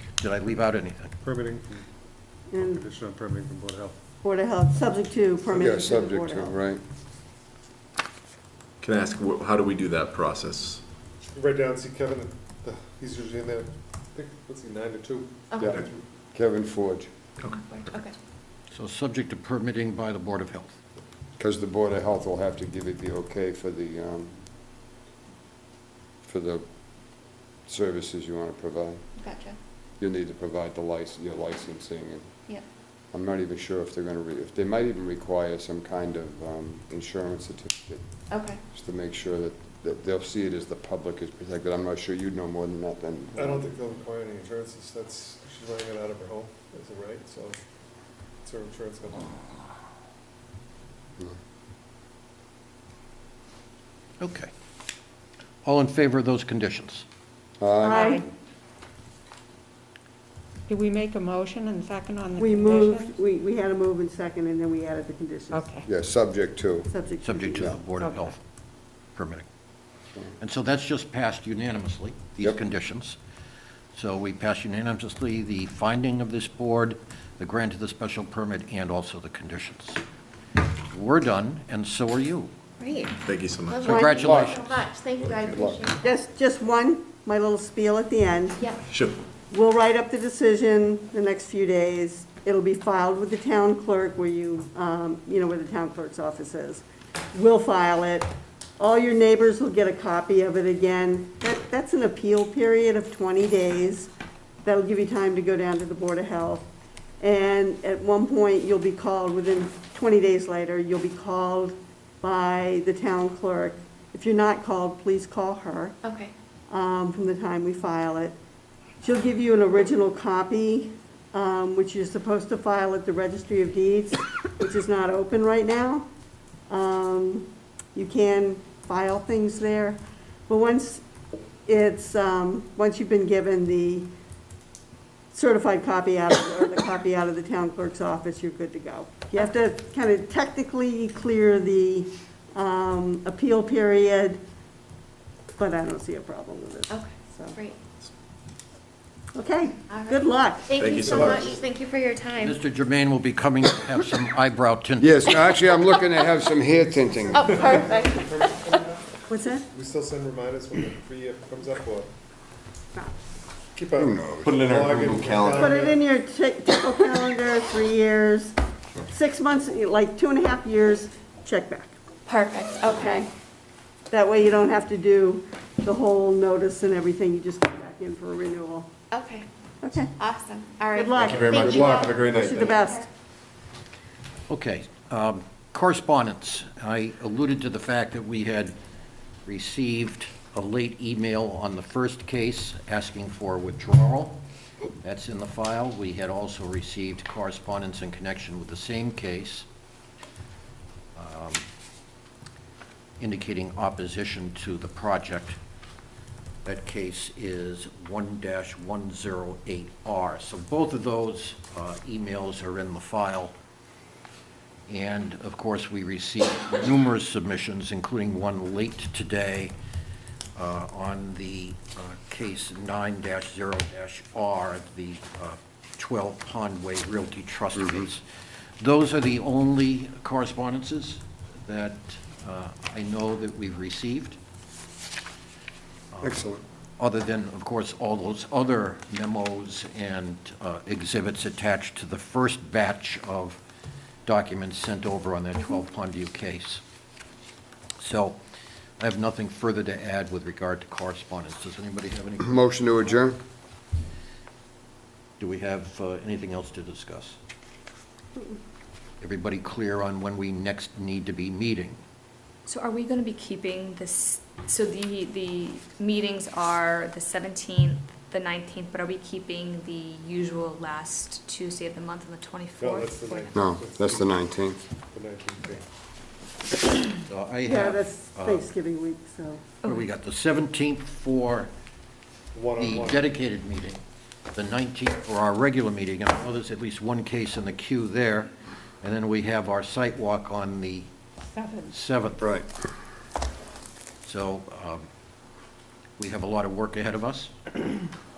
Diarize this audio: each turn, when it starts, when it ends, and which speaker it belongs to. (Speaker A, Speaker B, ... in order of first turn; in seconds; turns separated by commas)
Speaker A: 0.2-1.1, Speaker B: 1.2-1.9, Speaker C: 2.5-2.8, Speaker B: 2.6-4.0, Speaker C: 4.2-6.5, Speaker D: 5.5-6.8, Speaker E: 8.8-10.8, Speaker B: 11.3-16.0, Speaker D: 15.6-17.1, Speaker F: 17.7-18.2, Speaker A: 18.7-20.7, Speaker D: 21.4-24.4, Speaker D: 26.2-26.6, Speaker D: 27.7-29.0, Speaker F: 29.2-29.6, Speaker D: 30.0-32.3, Speaker D: 33.1-38.1, Speaker F: 38.3-38.6, Speaker D: 38.6-43.7, Speaker B: 43.3-47.6, Speaker B: 48.4-49.4, Speaker A: 54.2-54.5, Speaker A: 55.6-57.0, Speaker D: 57.6-58.1, Speaker G: 57.8-58.2, Speaker C: 57.9-58.2, Speaker G: 60.7-63.2, Speaker C: 62.4-65.7, Speaker G: 65.5-65.9, Speaker D: 65.8-66.9, Speaker C: 66.9-67.8, Speaker A: 67.2-68.4, Speaker G: 68.0-68.3, Speaker A: 69.2-69.5, Speaker A: 70.4-73.2, Speaker A: 74.0-80.0, Speaker A: 80.9-82.5, Speaker F: 82.8-86.0, Speaker E: 83.2-83.8, Speaker A: 83.8-84.7, Speaker D: 83.9-84.6, Speaker D: 85.5-85.8, Speaker C: 86.0-88.6, Speaker E: 88.9-89.2, Speaker C: 89.5-104.1, Speaker C: 104.7-106.7, Speaker C: 107.2-116.0, Speaker F: 116.0-116.3, Speaker C: 116.7-118.3, Speaker C: 119.0-126.1, Speaker C: 126.7-131.0, Speaker C: 131.7-134.1, Speaker C: 135.3-144.4, Speaker C: 145.6-147.6, Speaker F: 146.9-147.8, Speaker C: 149.3-151.4, Speaker F: 149.9-152.6, Speaker E: 150.8-151.4, Speaker B: 151.0-151.7, Speaker A: 152.4-155.6, Speaker D: 155.0-157.6, Speaker B: 157.2-159.0, Speaker F: 157.4-158.1, Speaker C: 159.3-159.7, Speaker B: 159.7-162.1, Speaker B: 163.8-166.0, Speaker D: 164.0-164.6, Speaker E: 164.4-165.8, Speaker C: 165.6-168.6, Speaker C: 169.1-172.0, Speaker F: 172.3-173.2, Speaker C: 172.9-173.3, Speaker C: 174.1-178.9, Speaker F: 179.1-179.5, Speaker C: 179.8-180.1, Speaker F: 180.2-182.3, Speaker C: 180.9-183.1, Speaker B: 181.2-182.8, Speaker A: 184.5-188.7, Speaker A: 189.5-194.4, Speaker A: 195.0-199.7, Speaker A: 201.2-201.7, Speaker A: 203.2-205.6, Speaker A: 206.7-213.5, Speaker A: 214.9-219.7, Speaker A: 220.6-228.2, Speaker D: 227.8-228.1, Speaker A: 228.8-234.4, Speaker A: 236.1-236.5, Speaker D: 236.2-236.6, Speaker A: 237.0-243.6, Speaker A: 244.3-246.8, Speaker A: 248.0-248.4, Speaker A: 249.0-252.7, Speaker D: 252.4-253.4, Speaker A: 255.4-257.4, Speaker A: 259.2-262.0, Speaker H: 262.7-273.6, Speaker B: 272.8-274.4, Speaker D: 273.5-274.8, Speaker B: 275.1-275.9, Speaker A: 277.3-278.7, Speaker C: 277.7-279.6, Speaker A: 279.8-281.7, Speaker B: 282.5-283.3, Speaker A: 282.8-284.0, Speaker A: 284.5-288.5, Speaker A: 289.0-291.1, Speaker G: 291.6-291.9, Speaker A: 291.9-292.5, Speaker D: 292.4-292.7, Speaker A: 294.2-295.1, Speaker A: 296.2-298.0